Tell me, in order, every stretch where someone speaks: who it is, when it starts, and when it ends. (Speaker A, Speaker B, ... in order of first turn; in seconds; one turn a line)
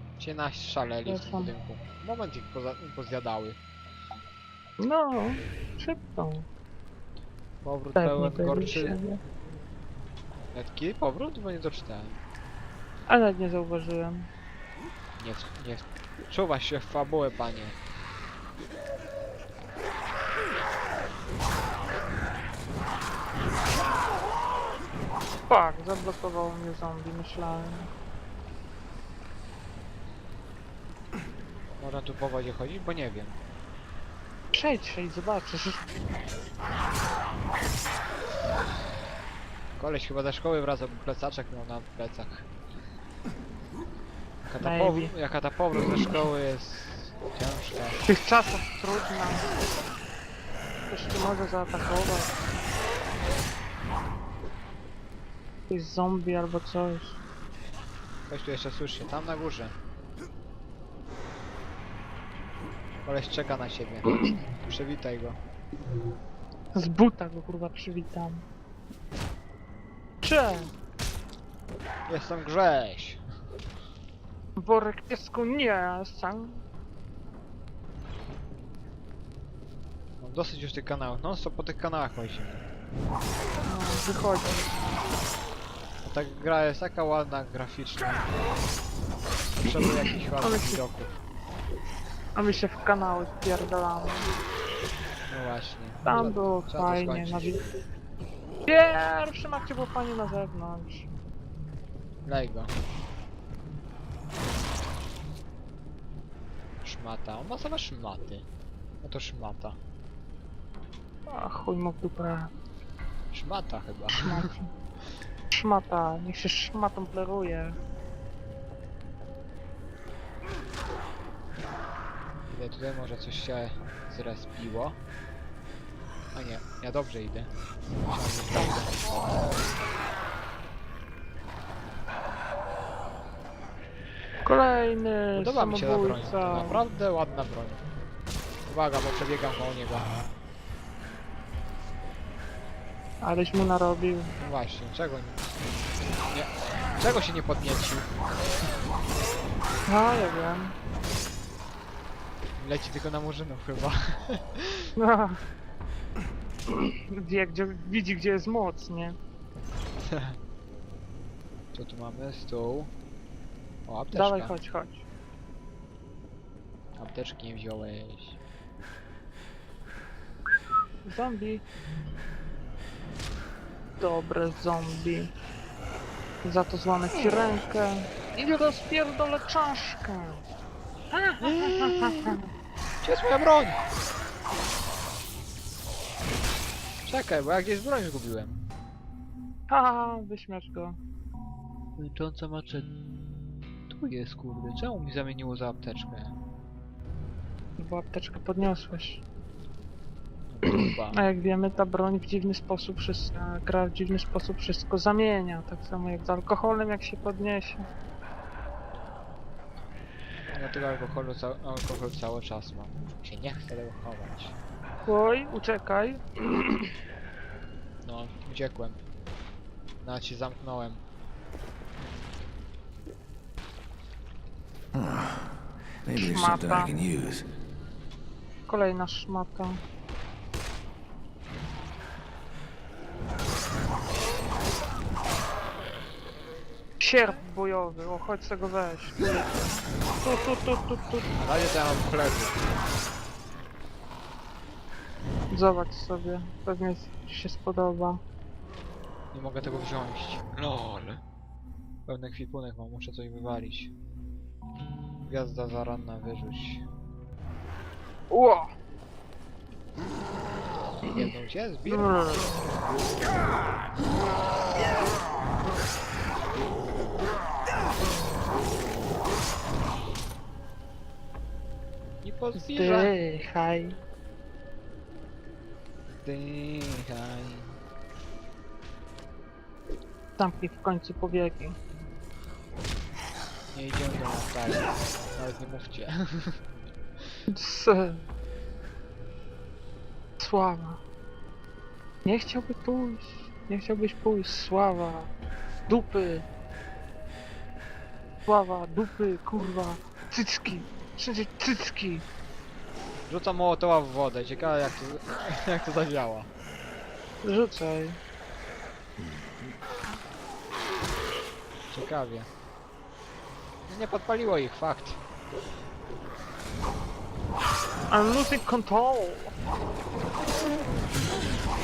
Speaker A: 0.2-3.6
Speaker B: 1.1-1.5
Speaker B: 4.8-6.5
Speaker A: 7.6-9.0
Speaker B: 8.0-9.2
Speaker A: 10.5-12.2
Speaker B: 13.1-14.3
Speaker A: 15.2-17.8
Speaker B: 25.5-27.9
Speaker A: 31.8-33.4
Speaker B: 34.5-35.9
Speaker A: 39.8-42.5
Speaker A: 44.4-48.0
Speaker B: 44.6-45.1
Speaker B: 48.1-49.5
Speaker B: 50.9-52.4
Speaker B: 55.7-57.2
Speaker A: 58.3-59.8
Speaker A: 63.0-65.4
Speaker B: 66.7-68.4
Speaker B: 70.2-70.7
Speaker A: 72.1-73.2
Speaker B: 74.6-76.6
Speaker A: 80.2-82.6
Speaker B: 83.7-84.7
Speaker A: 86.0-88.3
Speaker A: 89.6-91.1
Speaker B: 90.4-90.8
Speaker B: 92.4-94.3
Speaker A: 95.3-97.5
Speaker B: 96.0-97.7
Speaker B: 98.7-101.1
Speaker A: 102.2-102.7
Speaker A: 106.8-108.5
Speaker A: 109.0-109.8
Speaker B: 111.3-112.5
Speaker A: 113.3-114.5
Speaker B: 114.1-114.7
Speaker B: 115.5-117.8
Speaker A: 122.5-125.0
Speaker A: 126.3-127.5
Speaker A: 128.1-129.0
Speaker B: 134.4-136.8
Speaker A: 135.3-137.8
Speaker A: 138.7-140.2
Speaker B: 143.2-144.3
Speaker A: 144.4-145.5
Speaker A: 146.3-148.1
Speaker B: 149.9-150.7
Speaker A: 152.6-154.9
Speaker B: 155.0-155.4
Speaker B: 156.7-159.2
Speaker A: 160.0-160.4
Speaker A: 161.7-162.9
Speaker A: 163.9-164.6
Speaker B: 164.1-165.1
Speaker A: 167.0-168.4
Speaker B: 171.0-171.6
Speaker B: 174.0-175.3
Speaker B: 176.4-180.4
Speaker B: 181.1-182.4
Speaker A: 181.4-182.4
Speaker A: 183.0-183.8
Speaker A: 187.1-188.6
Speaker B: 189.7-191.0
Speaker A: 192.0-192.9
Speaker A: 193.9-196.3
Speaker B: 197.8-199.2
Speaker A: 200.5-201.2
Speaker B: 201.1-207.8
Speaker A: 210.5-214.6
Speaker B: 215.0-216.9
Speaker A: 218.1-219.0
Speaker A: 220.0-221.0
Speaker C: 224.9-227.5
Speaker B: 226.1-226.9
Speaker B: 228.7-229.8
Speaker B: 237.0-241.3
Speaker A: 241.4-242.7
Speaker B: 245.5-248.2
Speaker A: 249.3-251.2
Speaker A: 252.1-253.9
Speaker A: 255.2-256.9
Speaker B: 258.3-258.7
Speaker A: 261.1-262.1
Speaker B: 261.9-262.6
Speaker A: 272.2-273.1
Speaker B: 272.6-274.0
Speaker A: 276.1-277.8
Speaker B: 280.4-281.8
Speaker A: 283.7-286.6
Speaker B: 287.5-288.2
Speaker B: 290.4-291.0
Speaker B: 292.2-295.3
Speaker B: 295.9-296.4
Speaker B: 298.5-302.2
Speaker A: 303.3-306.5
Speaker B: 307.4-308.2
Speaker A: 311.9-312.5
Speaker A: 313.9-315.2
Speaker B: 318.1-319.6